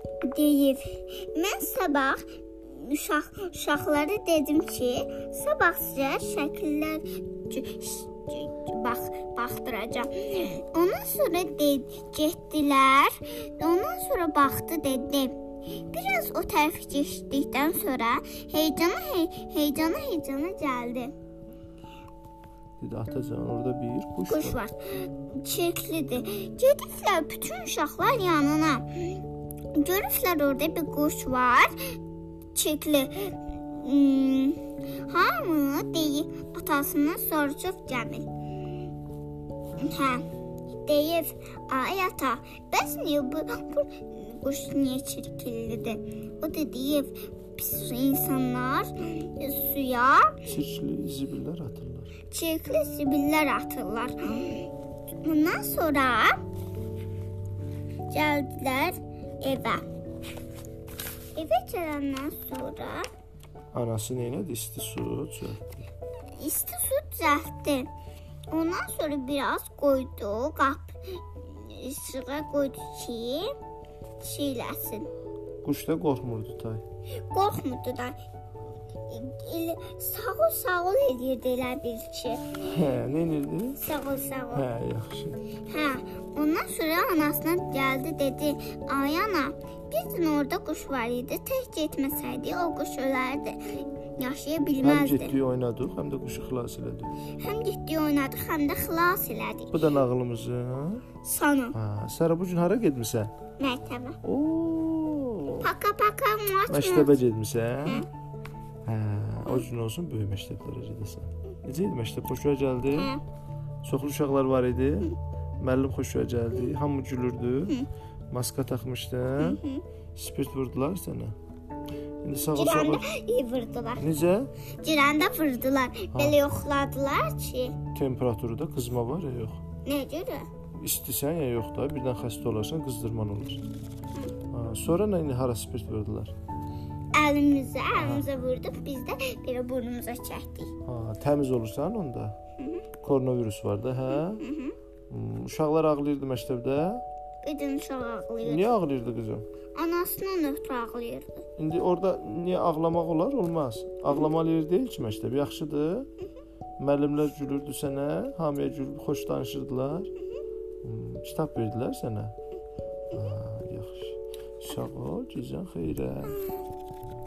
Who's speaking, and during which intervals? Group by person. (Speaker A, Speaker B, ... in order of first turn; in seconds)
Speaker A: 0.2-21.1, 24.3-31.8, 32.5-38.9, 39.8-40.2, 40.8-50.5, 52.3-54.7, 55.2-56.4, 58.1-59.8, 61.4-63.1, 66.4-67.9, 68.5-73.5, 74.2-75.1, 77.2-78.2, 79.1-82.5, 83.8-84.7, 85.7-93.6, 94.2-95.4, 97.3-99.8, 101.2-101.8, 103.6-104.2, 105.6-107.2, 112.9-113.2, 119.4-119.8, 122.6-124.0, 124.8-127.8, 129.8-130.5, 137.1-140.7, 142.6-142.9, 144.1-144.8, 147.4-148.7, 149.8-151.5
Speaker B: 22.8-24.6, 50.5-52.1, 63.7-65.9, 75.6-76.8, 82.7-83.8, 84.5-85.4, 94.8-97.1, 99.7-101.0, 101.7-103.3, 104.2-105.7, 106.7-108.0, 108.9-113.1, 113.8-117.8, 118.3-119.6, 120.2-121.3, 122.2-123.1, 124.0-124.5, 126.1-126.4, 128.0-129.6, 130.8-133.7, 134.5-136.3, 138.0-138.3, 140.8-142.3, 143.0-144.4, 145.1-147.0, 148.4-149.4, 151.6-156.1, 156.8-160.1, 160.8-162.3, 163.1-166.4